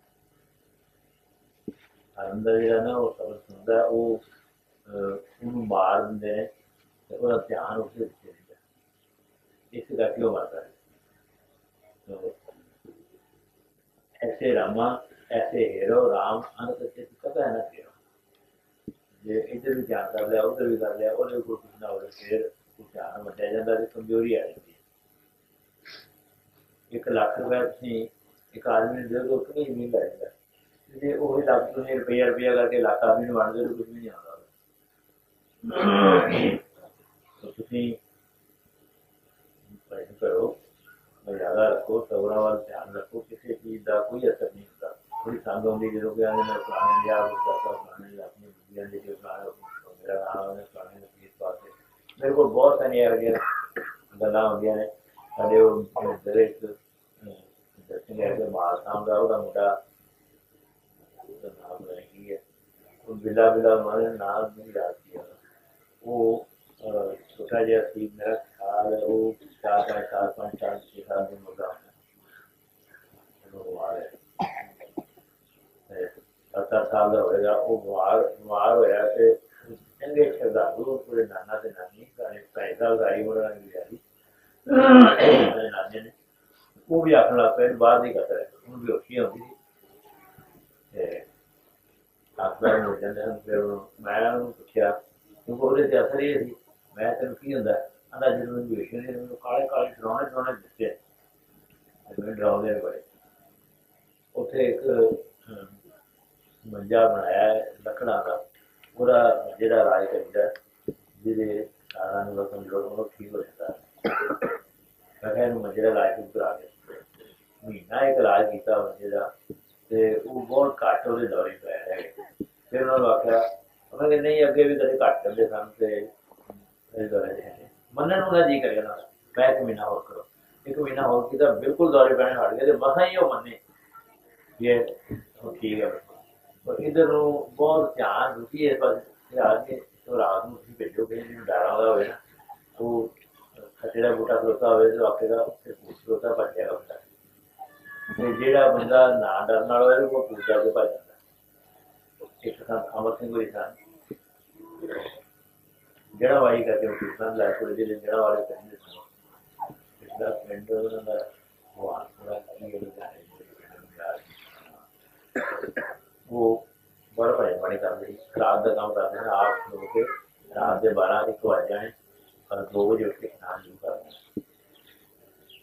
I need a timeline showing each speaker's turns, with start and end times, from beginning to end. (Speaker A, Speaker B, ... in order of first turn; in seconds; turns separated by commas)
Speaker A: 2.1-4.2, Speaker A: 4.8-6.5, Speaker A: 7.1-8.6, Speaker A: 9.7-10.7, Speaker A: 12.1-12.4, Speaker A: 14.2-17.9, Speaker A: 19.2-24.8, Speaker A: 26.9-30.3, Speaker A: 30.9-34.5, Speaker A: 35.6-36.6, Speaker A: 37.4-38.0, Speaker A: 39.8-40.5, Speaker A: 41.2-53.4, Speaker A: 54.1-59.7, Speaker A: 61.3-62.4, Speaker A: 63.0-65.3, Speaker A: 66.0-71.9, Speaker A: 73.4-74.1, Speaker A: 75.9-84.0, Speaker A: 84.7-86.1, Speaker A: 86.9-89.5, Speaker A: 90.9-91.2, Speaker A: 92.4-94.9, Speaker A: 95.5-101.0, Speaker A: 102.1-103.0, Speaker A: 104.3-105.7, Speaker A: 106.6-108.4, Speaker A: 108.9-110.5, Speaker A: 111.2-113.9, Speaker A: 115.2-117.0, Speaker A: 117.6-119.3, Speaker A: 119.9-122.2, Speaker A: 122.7-126.1, Speaker A: 126.9-133.6, Speaker A: 134.6-142.2, Speaker A: 142.8-147.0, Speaker A: 148.1-151.1, Speaker A: 152.4-153.8, Speaker A: 156.2-159.1, Speaker A: 160.0-164.8, Speaker A: 166.2-171.9, Speaker A: 172.5-174.2